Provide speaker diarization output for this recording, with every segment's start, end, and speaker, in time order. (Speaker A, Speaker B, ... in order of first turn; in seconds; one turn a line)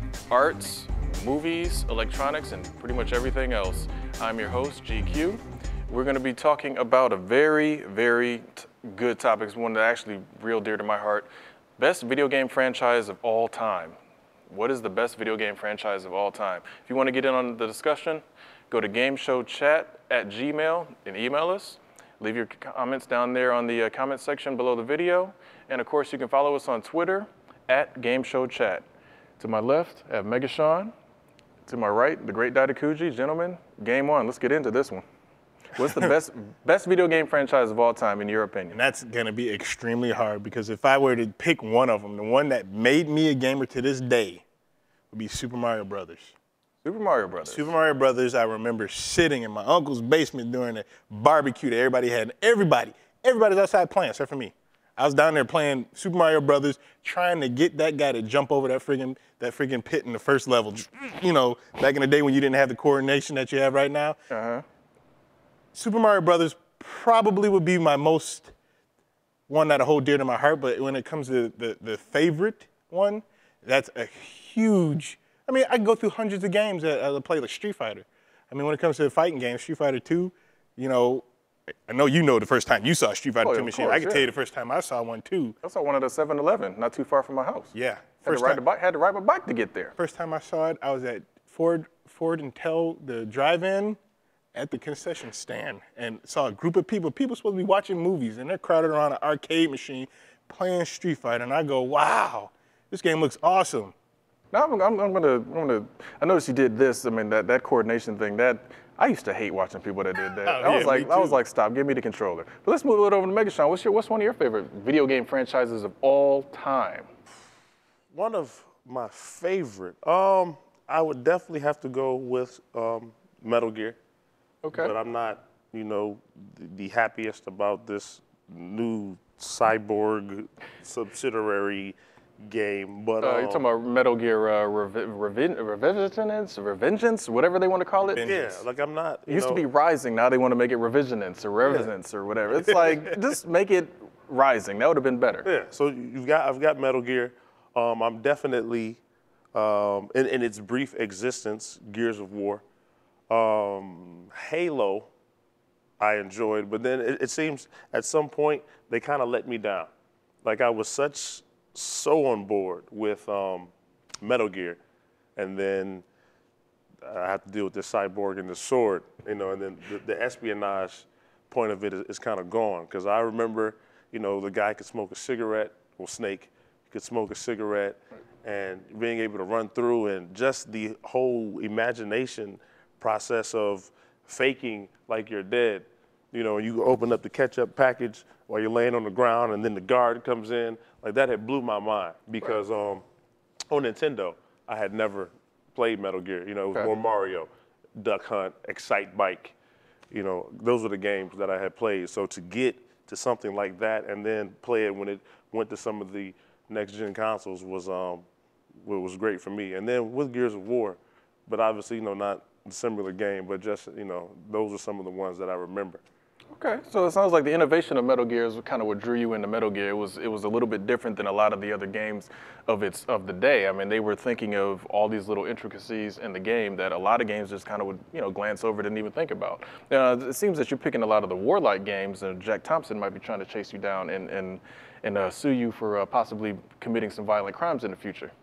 Speaker A: 0.3-13.9
Speaker A: 14.5-28.8
Speaker A: 29.4-30.9
Speaker A: 31.6-35.0
Speaker A: 35.7-38.8
Speaker B: 38.7-44.4
Speaker B: 45.1-46.4
Speaker A: 46.8-47.7
Speaker B: 47.5-64.2
Speaker A: 64.3-64.6
Speaker B: 65.7-68.5
Speaker B: 69.5-81.2
Speaker B: 81.9-85.5
Speaker A: 83.4-84.3
Speaker A: 85.6-89.9
Speaker B: 87.7-88.6
Speaker B: 90.0-94.0
Speaker B: 94.5-103.9
Speaker A: 104.5-117.1
Speaker B: 110.4-111.4
Speaker C: 118.1-124.0
Speaker A: 124.6-124.9
Speaker C: 124.7-133.6
Speaker A: 133.2-138.3
Speaker B: 138.0-138.6
Speaker C: 138.2-139.6
Speaker A: 139.3-145.5
Speaker C: 145.4-149.0
Speaker C: 149.5-152.6
Speaker C: 153.3-155.1
Speaker C: 156.0-159.9
Speaker C: 160.4-164.8
Speaker C: 165.3-166.0
Speaker C: 167.0-193.0
Speaker C: 193.7-199.5
Speaker C: 200.1-208.2
Speaker C: 208.8-216.0
Speaker A: 216.5-238.3